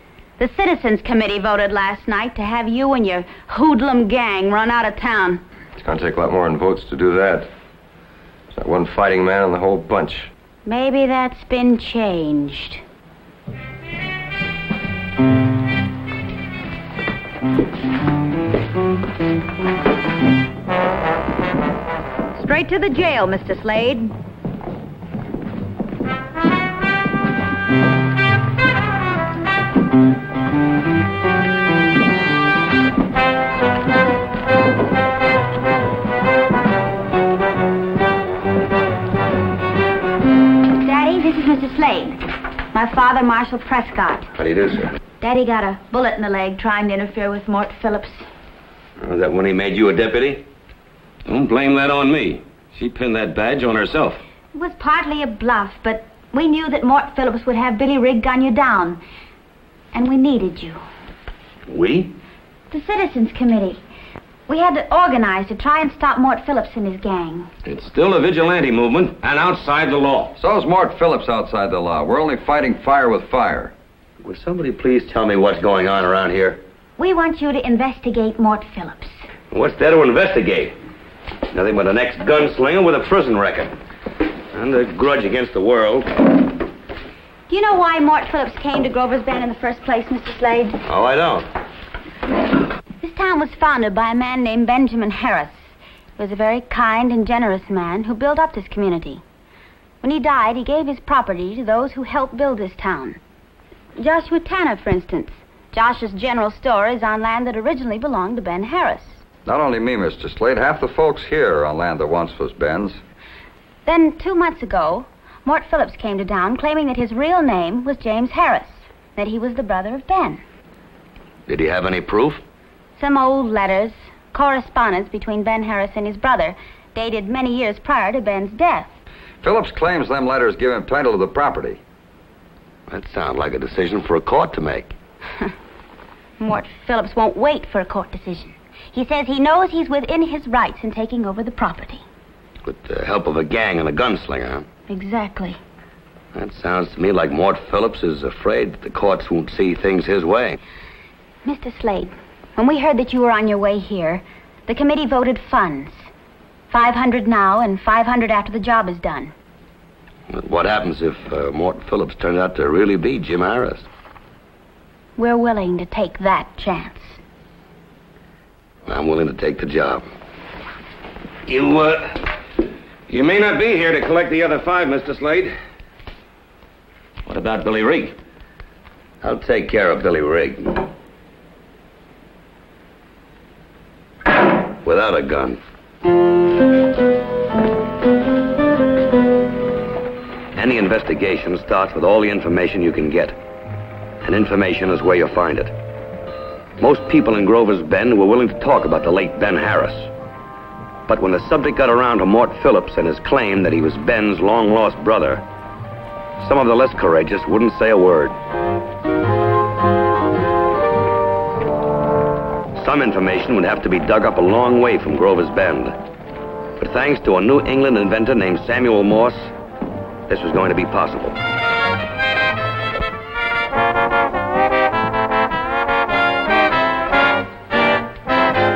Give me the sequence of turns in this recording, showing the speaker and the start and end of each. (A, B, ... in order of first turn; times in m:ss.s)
0:00.4-0:05.4 A
0:05.8-0:07.5 B
0:08.5-0:10.3 B
0:10.7-0:12.8 A
0:22.4-0:24.1 A
0:40.8-0:44.3 A
0:44.4-0:45.0 C
0:45.2-0:48.3 A
0:49.0-0:50.4 C
0:51.3-0:54.2 C
0:52.8-0:54.1 D
0:54.5-0:59.0 A
0:59.9-1:00.8 A
1:01.7-1:02.1 C
1:02.7-1:03.8 A
1:04.5-1:07.5 A
1:07.6-1:10.4 C
1:10.4-1:13.7 D
1:14.2-1:16.6 C
1:17.0-1:19.1 A
1:19.5-1:20.8 C
1:21.5-1:23.8 C
1:24.5-1:26.1 C
1:27.5-1:30.8 A
1:30.9-1:31.5 C
1:33.0-1:39.2 A
1:40.0-1:43.2 A
1:44.0-1:49.2 A
1:49.4-1:53.0 D
1:53.8-2:00.4 A
2:01.5-2:02.4 C
2:03.0-2:08.9 A
2:09.4-2:11.8 D
2:12.9-2:14.9 C
2:16.4-2:22.0 A
2:22.6-2:24.7 C
2:24.9-2:25.6 A
2:26.3-2:30.6 C
2:31.4-2:36.0 A
2:36.7-2:39.3 A
2:40.3-2:43.8 C
2:45.2-2:47.2 A
2:48.9-2:50.0 C
2:51.5-2:52.3 C
2:53.1-2:55.5 C
2:57.3-2:58.2 C
2:59.2-3:00.9 C
3:04.8-3:05.6 C
3:10.5-3:13.4 C
3:14.2-3:15.7 C
3:16.8-3:20.1 C
3:21.1-3:25.4 C
3:26.4-3:28.4 C
3:32.8-3:36.0 C
3:36.8-3:39.5 C
3:40.3-3:41.4 C